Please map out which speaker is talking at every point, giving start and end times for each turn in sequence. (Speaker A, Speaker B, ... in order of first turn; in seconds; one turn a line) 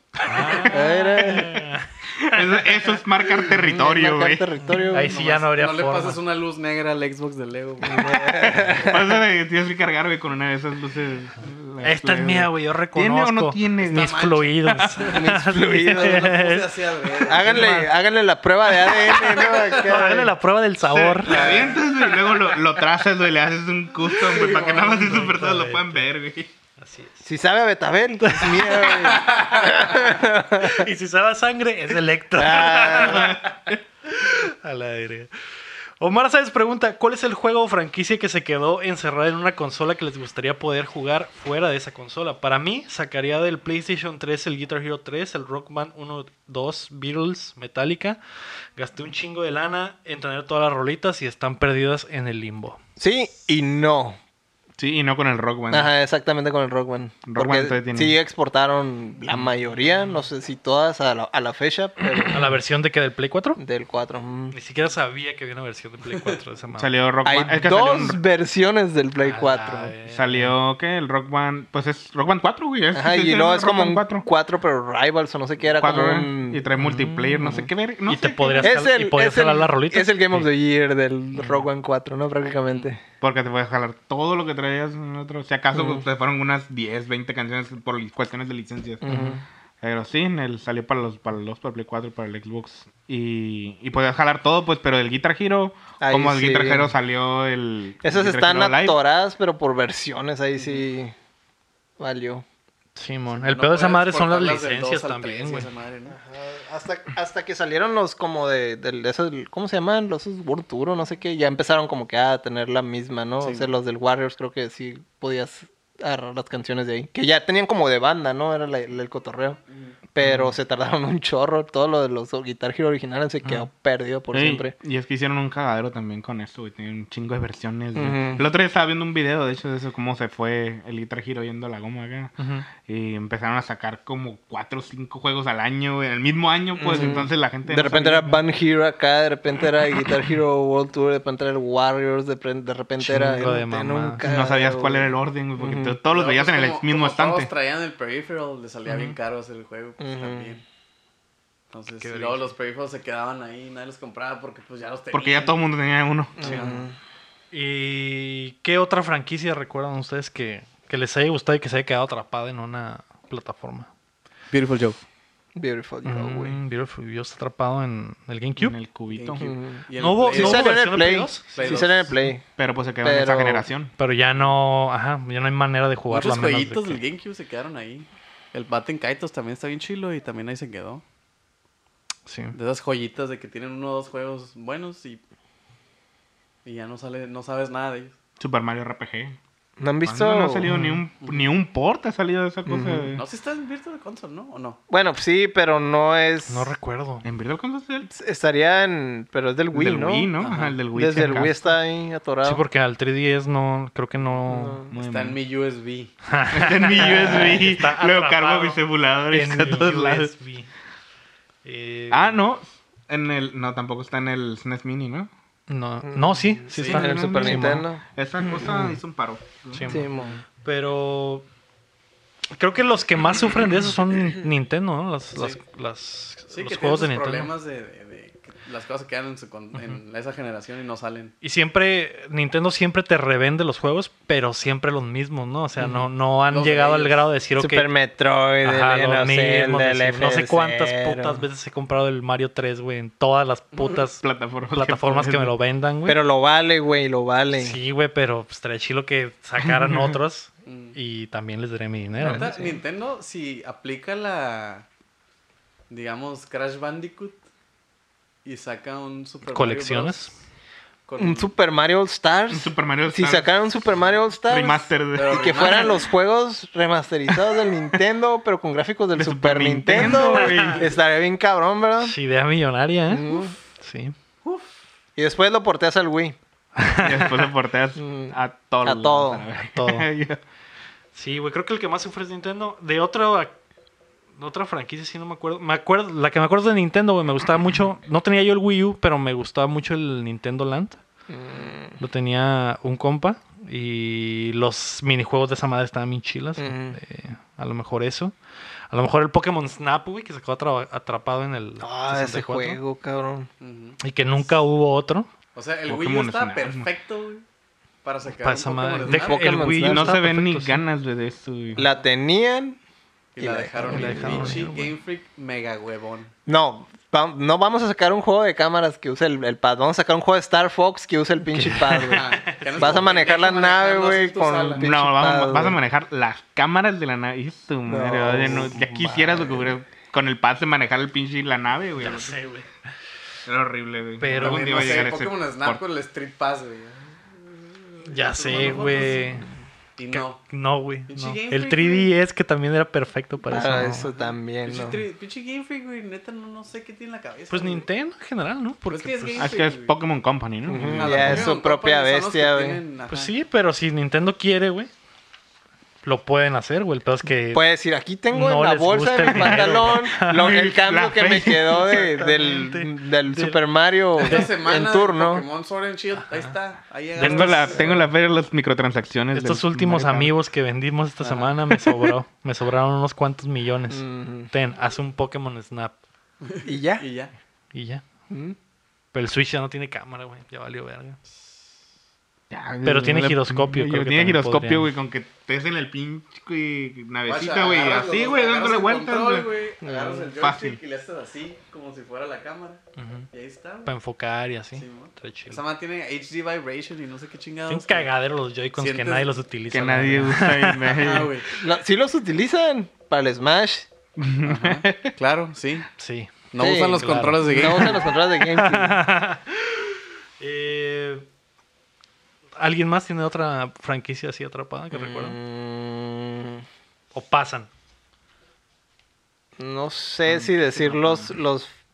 Speaker A: 0.2-2.6
Speaker B: 0.6-1.7
Speaker C: 2.2-4.5
Speaker B: 3.4-5.2
Speaker A: 4.8-6.2
Speaker D: 5.0-8.5
Speaker B: 7.8-9.1
Speaker C: 8.4-15.1
Speaker A: 11.8-17.9
Speaker D: 13.9-14.4
Speaker B: 15.1-16.4
Speaker D: 15.9-17.8
Speaker B: 17.2-20.3
Speaker D: 19.0-20.1
Speaker A: 19.2-21.4
Speaker C: 20.8-26.5
Speaker D: 21.3-22.4
Speaker B: 21.3-21.7
Speaker D: 24.1-25.4
Speaker A: 25.3-26.0
Speaker A: 26.8-27.2
Speaker B: 27.2-30.9
Speaker A: 28.2-30.0
Speaker D: 29.0-29.8
Speaker A: 30.5-33.5
Speaker B: 32.4-33.4
Speaker C: 32.9-33.8
Speaker A: 34.0-35.3
Speaker A: 36.0-48.2
Speaker A: 48.8-52.8
Speaker B: 53.0-54.2
Speaker C: 54.8-55.9
Speaker B: 55.7-62.5
Speaker C: 57.2-58.1
Speaker A: 62.3-63.6
Speaker B: 63.6-64.5
Speaker A: 64.5-67.0
Speaker D: 66.1-66.4
Speaker C: 66.8-68.2
Speaker B: 67.2-69.9
Speaker A: 69.2-70.5
Speaker C: 70.1-74.3
Speaker B: 72.9-76.6
Speaker C: 75.7-78.7
Speaker A: 76.8-80.5
Speaker B: 78.6-83.0
Speaker A: 81.3-81.7
Speaker C: 83.2-89.1
Speaker B: 85.7-86.0
Speaker B: 89.0-89.4
Speaker A: 89.1-89.4
Speaker C: 89.8-99.0
Speaker B: 96.0-96.9
Speaker B: 98.0-101.1
Speaker B: 102.0-102.4
Speaker A: 103.0-105.7
Speaker D: 103.3-106.2
Speaker B: 106.1-119.6
Speaker D: 113.4-113.7
Speaker B: 120.1-124.7
Speaker C: 124.3-138.4
Speaker B: 127.9-128.4
Speaker A: 132.4-132.7
Speaker B: 136.8-146.0
Speaker A: 143.0-144.3
Speaker C: 144.2-147.5
Speaker D: 146.1-150.6
Speaker B: 150.0-150.6
Speaker D: 151.7-155.6
Speaker A: 152.0-152.5
Speaker C: 155.1-156.7
Speaker B: 156.4-156.9
Speaker D: 156.4-156.8
Speaker A: 157.5-163.9
Speaker D: 164.5-165.0
Speaker B: 165.5-166.6
Speaker A: 166.0-168.8
Speaker C: 168.6-169.5
Speaker D: 169.1-170.8
Speaker B: 169.4-172.4
Speaker A: 169.9-172.1
Speaker D: 171.5-172.1
Speaker C: 172.6-173.9
Speaker B: 173.0-173.7
Speaker A: 174.0-177.0
Speaker D: 176.1-181.0
Speaker A: 182.3-182.6
Speaker D: 182.5-185.2
Speaker D: 186.6-188.2
Speaker C: 188.4-189.4
Speaker B: 189.8-190.7
Speaker C: 190.0-193.2
Speaker A: 190.7-191.0
Speaker B: 192.7-193.2
Speaker D: 193.2-194.8
Speaker B: 194.9-196.7
Speaker A: 196.5-197.2
Speaker C: 197.2-198.1
Speaker B: 198.1-200.3
Speaker C: 199.7-201.6
Speaker D: 200.4-200.7
Speaker B: 200.9-202.6
Speaker A: 202.4-204.8
Speaker B: 204.5-204.9
Speaker C: 204.9-205.4
Speaker D: 204.9-206.1
Speaker A: 206.2-210.7
Speaker C: 206.5-210.3
Speaker A: 211.6-212.4
Speaker C: 212.1-215.3
Speaker A: 215.7-217.8
Speaker B: 216.0-218.9
Speaker D: 216.7-217.0
Speaker C: 216.9-220.1
Speaker A: 219.7-221.5
Speaker B: 219.9-220.4
Speaker A: 222.5-227.5
Speaker D: 225.3-225.6
Speaker D: 226.5-231.3
Speaker A: 229.7-230.0
Speaker A: 231.4-237.9
Speaker B: 235.8-236.0
Speaker D: 236.5-237.3
Speaker B: 237.6-241.4
Speaker A: 238.6-246.2
Speaker C: 243.9-245.5
Speaker B: 246.1-247.8
Speaker A: 247.5-252.6
Speaker C: 249.6-250.1
Speaker D: 250.7-250.9
Speaker D: 252.2-254.8
Speaker B: 252.2-252.8
Speaker D: 255.9-257.4
Speaker D: 258.4-260.3
Speaker A: 259.5-260.3
Speaker D: 261.1-261.5
Speaker B: 261.2-272.1
Speaker C: 262.5-263.6
Speaker C: 264.4-266.0
Speaker D: 265.1-266.0
Speaker C: 269.1-270.9
Speaker A: 269.9-270.7
Speaker A: 272.0-274.1
Speaker B: 273.1-273.5
Speaker B: 275.1-276.4
Speaker A: 276.8-277.4
Speaker C: 277.0-280.4
Speaker B: 278.0-279.5
Speaker A: 279.7-280.1
Speaker A: 281.1-283.5
Speaker A: 284.4-291.0
Speaker B: 291.3-292.0
Speaker A: 292.0-298.3
Speaker B: 296.6-297.0
Speaker A: 298.9-302.8
Speaker B: 301.8-303.5
Speaker D: 303.6-304.6
Speaker A: 304.0-305.3
Speaker D: 305.5-307.4
Speaker C: 305.9-306.9
Speaker D: 308.0-309.7
Speaker A: 308.3-310.8
Speaker B: 309.0-310.2
Speaker C: 309.8-311.9
Speaker B: 311.8-312.8
Speaker D: 313.4-316.3
Speaker B: 313.4-314.6
Speaker A: 313.8-314.9
Speaker B: 316.4-325.8
Speaker A: 321.5-323.0
Speaker D: 322.1-324.9
Speaker C: 324.8-332.4
Speaker B: 327.9-329.7
Speaker A: 332.0-332.7
Speaker C: 333.4-335.8
Speaker A: 334.2-335.1
Speaker D: 334.4-339.3
Speaker A: 338.1-339.5
Speaker D: 340.0-340.4
Speaker A: 340.1-344.1
Speaker D: 341.1-342.1
Speaker B: 343.5-345.0
Speaker D: 344.2-347.9
Speaker A: 347.5-349.5
Speaker D: 348.9-349.9
Speaker C: 349.4-351.5
Speaker B: 350.6-352.8
Speaker D: 350.8-353.3
Speaker A: 353.1-354.9
Speaker A: 356.0-357.6
Speaker B: 357.5-365.5
Speaker A: 358.3-360.5
Speaker C: 359.2-362.1
Speaker A: 361.7-363.6
Speaker A: 364.2-364.5
Speaker D: 364.2-367.9
Speaker A: 366.3-366.5
Speaker A: 367.1-367.9
Speaker C: 367.2-370.3
Speaker A: 369.3-375.9
Speaker D: 371.2-371.5
Speaker B: 373.9-374.5
Speaker D: 376.4-377.3
Speaker B: 376.6-377.0
Speaker A: 377.7-378.1
Speaker B: 378.3-378.6
Speaker A: 379.1-381.2
Speaker C: 382.5-389.5
Speaker A: 382.8-384.9
Speaker D: 387.2-393.9
Speaker B: 389.8-390.3
Speaker C: 390.4-390.8
Speaker A: 393.0-393.3
Speaker A: 393.8-395.6
Speaker D: 394.7-398.1
Speaker A: 397.7-401.1
Speaker D: 398.8-399.3
Speaker C: 399.7-401.3
Speaker D: 400.9-401.5
Speaker B: 401.5-403.9
Speaker C: 404.2-405.1
Speaker D: 404.4-405.9
Speaker A: 406.0-411.2
Speaker D: 406.5-408.1
Speaker B: 406.6-409.0
Speaker A: 412.6-415.4
Speaker B: 414.9-416.6
Speaker A: 417.1-417.7
Speaker B: 419.6-421.7
Speaker C: 420.3-421.3